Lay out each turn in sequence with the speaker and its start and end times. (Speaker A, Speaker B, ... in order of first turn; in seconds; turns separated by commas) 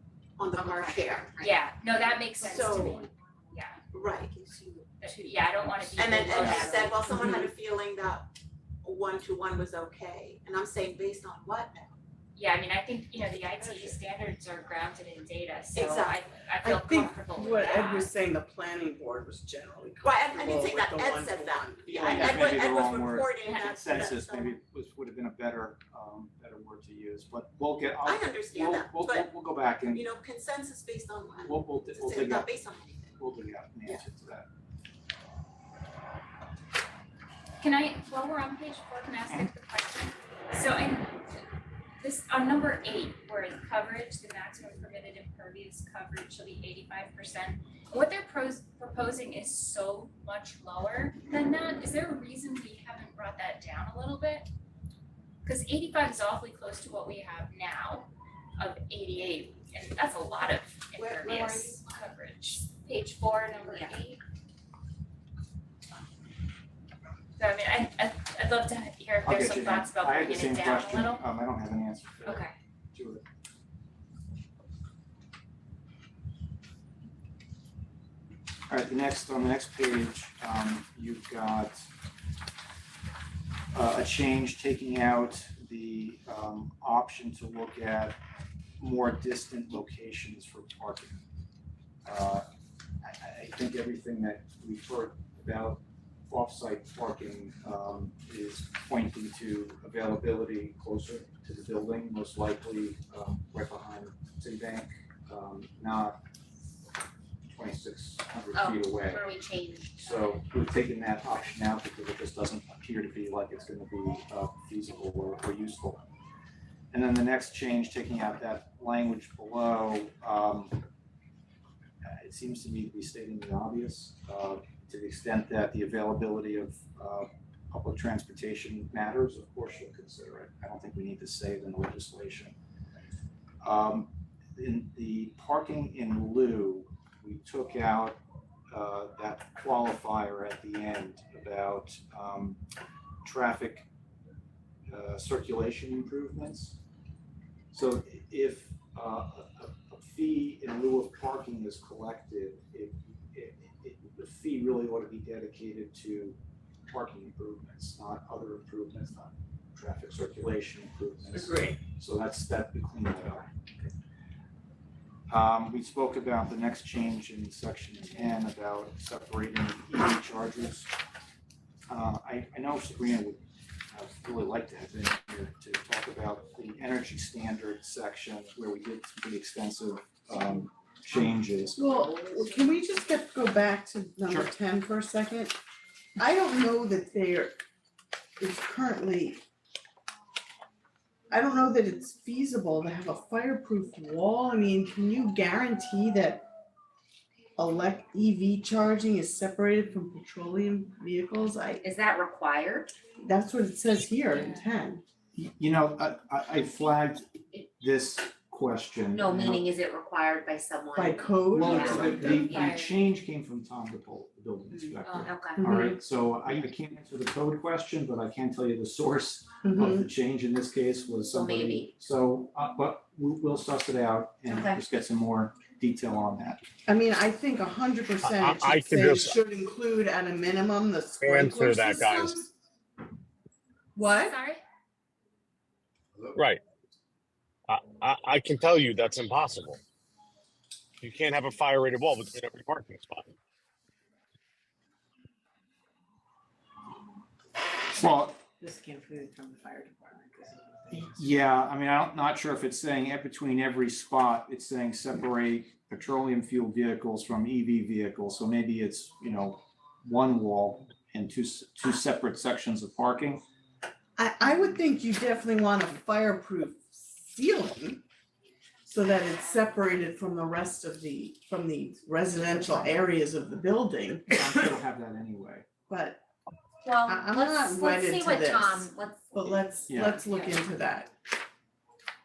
Speaker A: 0.4-1.4, Speaker B: 0.5-1.5, Speaker C: 1.4-3.8, Speaker A: 2.4-3.1, Speaker A: 3.9-5.4, Speaker C: 5.0-7.4, Speaker A: 5.9-8.3, Speaker B: 6.5-6.8, Speaker D: 7.1-7.5, Speaker A: 8.8-12.0, Speaker C: 12.4-18.1, Speaker A: 15.7-16.2, Speaker D: 16.6-22.5, Speaker A: 20.0-24.6, Speaker E: 21.9-30.1, Speaker A: 28.0-29.3, Speaker A: 29.9-33.2, Speaker E: 31.4-32.5, Speaker E: 33.2-34.5, Speaker C: 37.6-41.4, Speaker C: 42.0-54.5, Speaker C: 55.5-64.2, Speaker A: 61.0-61.8, Speaker C: 67.4-71.2, Speaker E: 69.2-73.2, Speaker C: 72.2-72.5, Speaker E: 78.7-81.9, Speaker E: 83.7-88.2, Speaker E: 88.8-91.2, Speaker E: 92.0-92.5, Speaker E: 93.0-106.2, Speaker E: 107.5-109.2, Speaker B: 108.5-110.1, Speaker E: 110.0-116.0, Speaker E: 116.9-120.8, Speaker E: 122.0-132.6, Speaker E: 133.6-142.6, Speaker E: 143.2-143.9, Speaker E: 144.9-146.8, Speaker E: 147.7-163.5, Speaker D: 161.3-161.8, Speaker E: 165.3-170.9, Speaker E: 171.9-181.8, Speaker D: 181.8-185.6, Speaker D: 186.2-187.6, Speaker D: 188.4-189.4, Speaker D: 191.3-196.5, Speaker D: 197.6-201.8, Speaker B: 201.8-202.9, Speaker D: 203.2-205.0, Speaker E: 205.3-207.3, Speaker E: 207.8-209.6, Speaker B: 209.1-212.9, Speaker D: 210.9-212.5, Speaker E: 211.5-226.6, Speaker B: 214.8-215.6, Speaker D: 215.6-216.0, Speaker D: 219.6-220.1, Speaker B: 221.3-221.9, Speaker B: 224.5-224.8, Speaker D: 226.9-232.5, Speaker F: 228.2-229.4, Speaker F: 231.2-232.4, Speaker D: 233.9-234.4, Speaker C: 234.0-234.6, Speaker F: 236.3-236.6, Speaker F: 237.7-239.8, Speaker F: 241.0-243.3, Speaker E: 247.9-248.4, Speaker G: 248.6-251.1, Speaker E: 251.0-263.4, Speaker D: 264.2-268.0, Speaker D: 268.9-274.6, Speaker E: 274.3-275.7, Speaker D: 275.9-276.2, Speaker B: 276.8-279.3, Speaker D: 277.0-281.1, Speaker E: 279.9-280.2